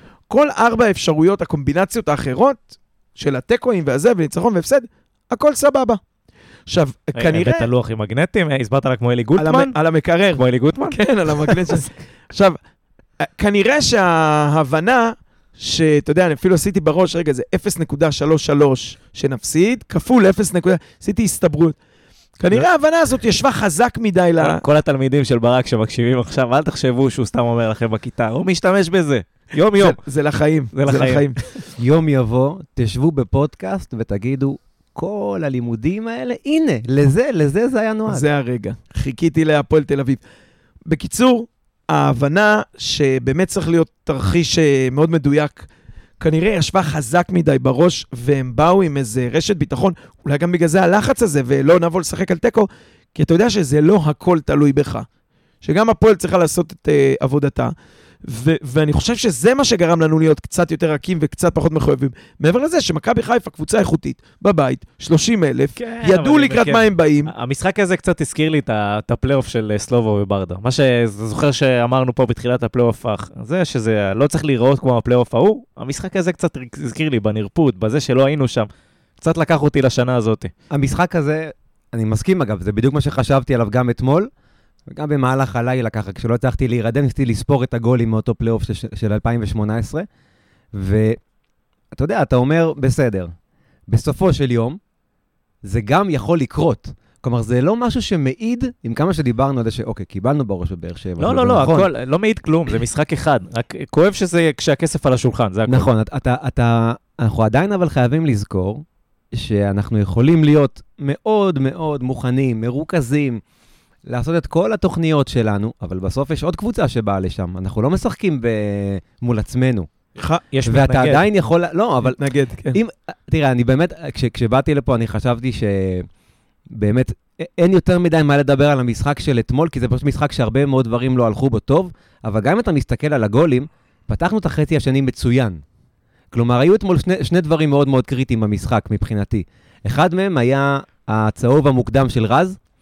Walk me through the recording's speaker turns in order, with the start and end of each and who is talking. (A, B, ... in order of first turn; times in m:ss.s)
0:00.3-0:06.0 A
0:06.7-0:07.7 A
0:07.2-0:09.7 B
0:09.4-0:12.6 A
0:10.4-0:11.8 B
0:13.2-0:21.8 A
0:22.4-0:24.6 A
0:24.4-0:30.0 B
0:29.8-0:31.5 A
0:30.7-0:31.3 B
0:31.8-0:38.3 C
0:38.1-0:40.2 A
0:40.9-0:45.7 A
0:46.2-0:55.1 A
0:55.6-0:57.7 A
0:58.2-1:07.3 A
1:05.8-1:20.5 B
1:20.7-1:24.3 C
1:24.9-1:30.1 C
1:30.8-1:31.2 C
1:31.9-1:33.3 C
1:33.9-1:34.8 C
1:35.6-1:41.9 C
1:41.2-1:45.9 B
1:45.7-1:53.4 C
1:54.1-1:59.9 C
2:00.2-2:00.4 A
2:00.5-2:01.3 B
2:00.7-2:02.2 C
2:02.0-2:02.8 A
2:02.7-2:06.1 C
2:06.7-2:15.6 C
2:16.3-2:22.6 C